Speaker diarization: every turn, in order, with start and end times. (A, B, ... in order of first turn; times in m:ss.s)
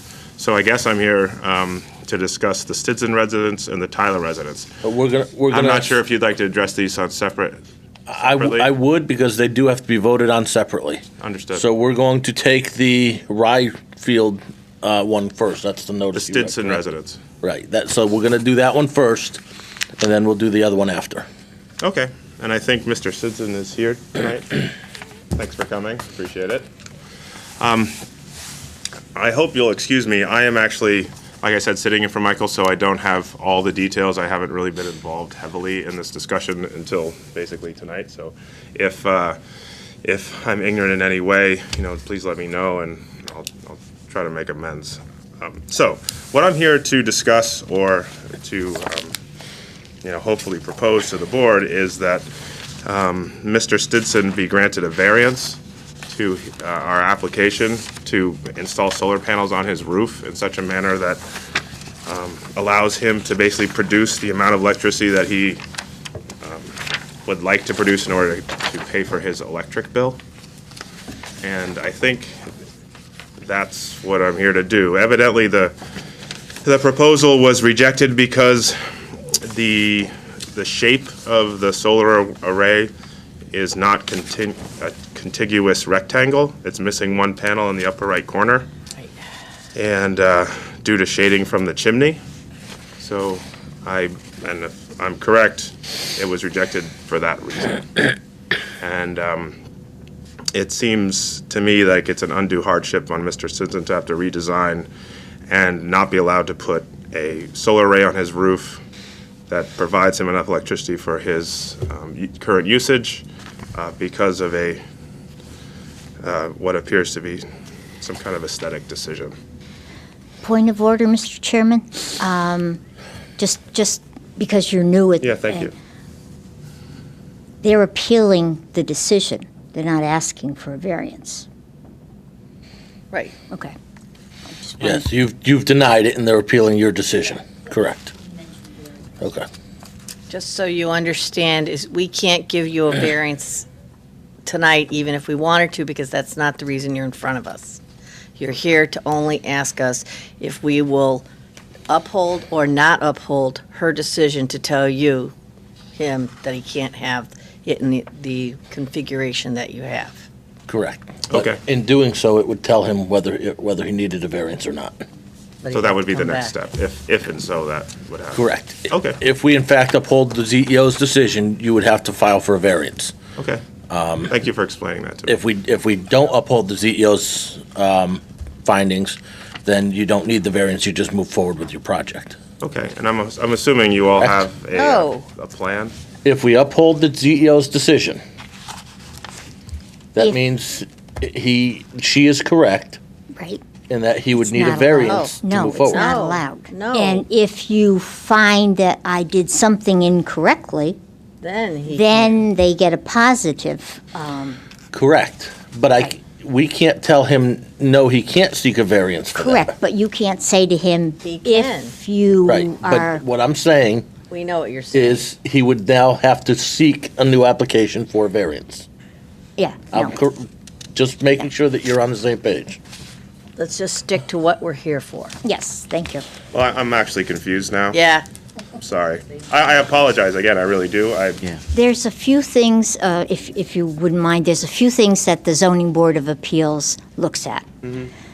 0:00.4-0:04.7 A
0:04.8-0:06.0 B
0:05.5-0:07.6 A
0:08.1-0:11.0 B
0:08.1-0:08.7 A
0:11.2-0:11.7 A
0:11.5-0:16.8 B
0:16.1-0:17.2 A
0:17.4-0:19.4 B
0:20.0-0:21.3 B
0:21.8-0:24.6 A
0:25.3-0:26.7 A
0:27.6-0:27.9 A
0:29.1-0:39.4 A
0:40.0-0:49.2 A
0:50.0-0:52.3 A
0:52.8-1:01.2 A
1:02.0-1:05.6 A
1:06.4-1:10.2 A
1:11.4-1:12.4 A
1:13.4-1:15.7 A
1:16.6-1:18.8 A
1:19.3-1:22.9 A
1:23.5-1:28.7 A
1:29.7-1:32.2 A
1:33.0-1:38.0 A
1:38.8-1:39.6 A
1:40.5-1:44.9 A
1:45.5-1:48.8 A
1:49.5-1:54.8 A
1:56.2-1:57.4 A
1:58.0-1:59.3 A
2:00.4-2:02.8 C
2:03.4-2:05.7 C
2:05.2-2:05.7 A
2:07.6-2:11.4 C
2:14.5-2:15.0 C
2:14.8-2:18.1 B
2:19.2-2:19.5 B
2:20.3-2:23.7 D
2:24.4-2:27.8 D
2:28.4-2:31.2 D
2:31.9-2:35.3 D
2:36.0-2:40.2 D
2:40.7-2:45.0 B
2:41.3-2:41.6 A
2:45.6-2:46.5 D
2:45.7-2:49.2 A
2:48.3-2:53.2 B
2:53.4-2:53.6 A
2:53.9-2:54.3 B
2:54.3-2:55.4 A
2:55.2-3:02.4 B
3:02.6-3:05.9 A
3:04.2-3:04.5 B
3:04.7-3:05.2 D
3:06.2-3:08.2 B
3:10.1-3:13.0 B
3:13.4-3:13.6 C
3:13.9-3:16.1 B
3:14.3-3:21.0 C
3:15.0-3:15.3 D
3:15.9-3:17.2 D
3:21.4-3:22.5 D
3:21.9-3:24.6 C
3:24.9-3:29.7 B
3:29.3-3:33.2 C
3:31.2-3:31.9 D
3:32.4-3:34.1 B
3:34.3-3:35.2 D
3:34.9-3:38.8 B
3:39.6-3:40.2 C
3:39.9-3:42.8 B
3:43.6-3:45.3 D
3:45.4-3:46.2 C
3:46.5-3:48.0 A
3:47.9-3:48.2 D
3:48.8-3:51.5 A
3:51.7-3:57.6 C
3:57.8-3:58.1 A